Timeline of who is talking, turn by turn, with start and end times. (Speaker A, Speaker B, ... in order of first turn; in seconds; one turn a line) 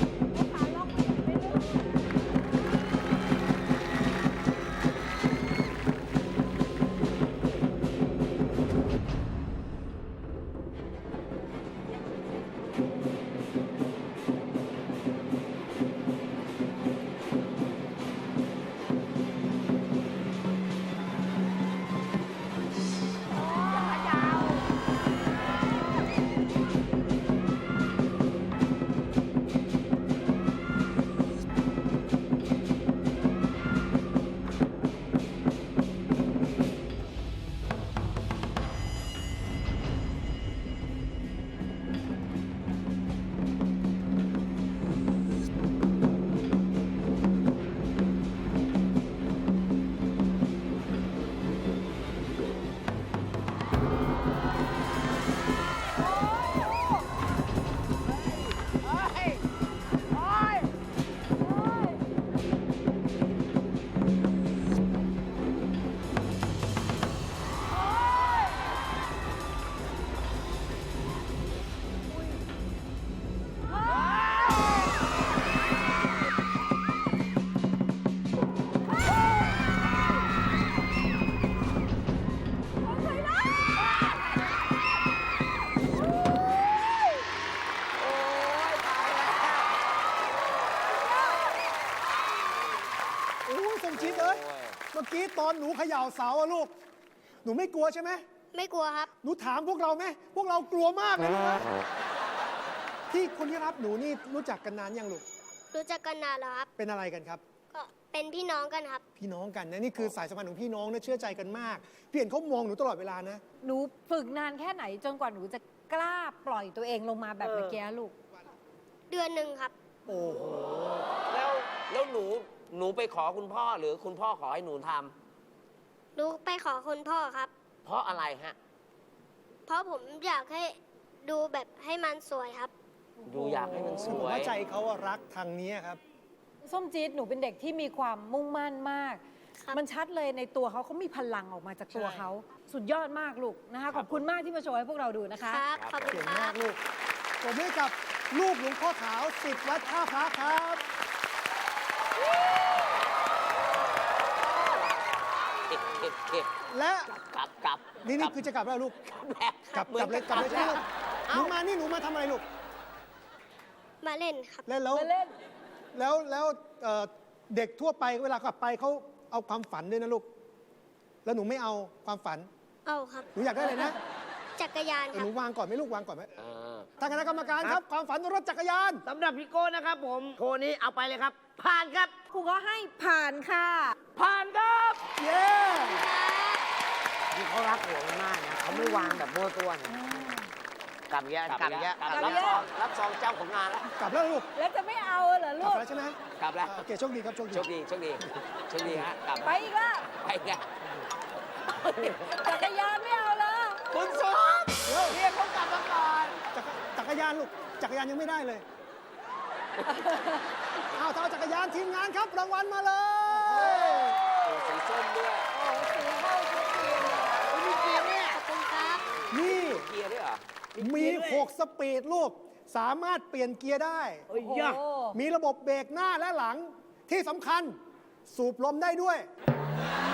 Speaker A: 0.3-1.8
Speaker A: 23.4-24.6
Speaker B: 88.0-89.7
Speaker C: 93.5-94.4
Speaker B: 93.9-94.8
Speaker C: 94.9-96.7
Speaker C: 97.4-98.2
Speaker D: 98.5-99.1
Speaker C: 99.2-101.7
Speaker C: 103.1-105.2
Speaker D: 105.7-106.7
Speaker C: 106.8-107.4
Speaker D: 107.7-109.0
Speaker C: 109.2-113.4
Speaker A: 113.6-118.1
Speaker B: 117.5-117.8
Speaker D: 119.1-119.7
Speaker C: 120.1-121.0
Speaker B: 121.3-125.1
Speaker D: 126.2-127.5
Speaker B: 127.8-128.6
Speaker D: 129.7-132.7
Speaker A: 133.2-134.3
Speaker B: 133.3-134.6
Speaker C: 134.0-136.0
Speaker A: 136.7-139.2
Speaker A: 139.7-145.6
Speaker B: 143.9-144.2
Speaker D: 145.5-146.6
Speaker B: 145.8-146.1
Speaker C: 146.1-146.8
Speaker C: 147.4-150.8
Speaker B: 155.7-156.5
Speaker C: 156.7-157.1
Speaker B: 157.1-158.4
Speaker C: 158.0-159.0
Speaker B: 159.1-161.6
Speaker C: 159.7-162.4
Speaker D: 164.0-164.7
Speaker C: 164.7-165.1
Speaker A: 164.9-165.3
Speaker C: 165.9-170.3
Speaker C: 171.2-172.5
Speaker D: 172.9-173.3
Speaker C: 173.3-174.0
Speaker D: 174.6-175.3
Speaker C: 175.1-176.3
Speaker B: 176.4-176.9
Speaker C: 177.0-179.0
Speaker E: 179.1-182.1
Speaker A: 182.3-183.9
Speaker B: 184.2-185.0
Speaker C: 185.2-186.1
Speaker D: 185.7-186.6
Speaker E: 187.3-190.0
Speaker A: 188.7-189.2
Speaker A: 189.9-190.5
Speaker E: 191.1-192.6
Speaker B: 191.4-193.9
Speaker A: 192.1-192.6
Speaker C: 194.0-194.5
Speaker A: 194.6-195.8
Speaker C: 195.6-197.7
Speaker B: 196.4-196.8
Speaker B: 197.5-199.6
Speaker C: 198.8-199.1
Speaker A: 199.4-200.1
Speaker B: 200.2-200.7
Speaker B: 201.7-202.4
Speaker A: 202.2-203.8
Speaker B: 203.9-206.4
Speaker C: 204.8-205.2
Speaker C: 206.5-208.6
Speaker A: 209.9-210.3
Speaker C: 210.9-214.2
Speaker A: 213.3-214.4
Speaker B: 214.4-215.5
Speaker A: 215.5-217.6
Speaker E: 217.5-218.4
Speaker D: 218.3-219.1
Speaker B: 219.1-220.4
Speaker C: 219.3-219.9
Speaker E: 220.8-221.5
Speaker C: 220.8-224.3
Speaker E: 224.3-224.8
Speaker A: 224.3-225.2
Speaker C: 225.1-227.8
Speaker C: 228.3-229.3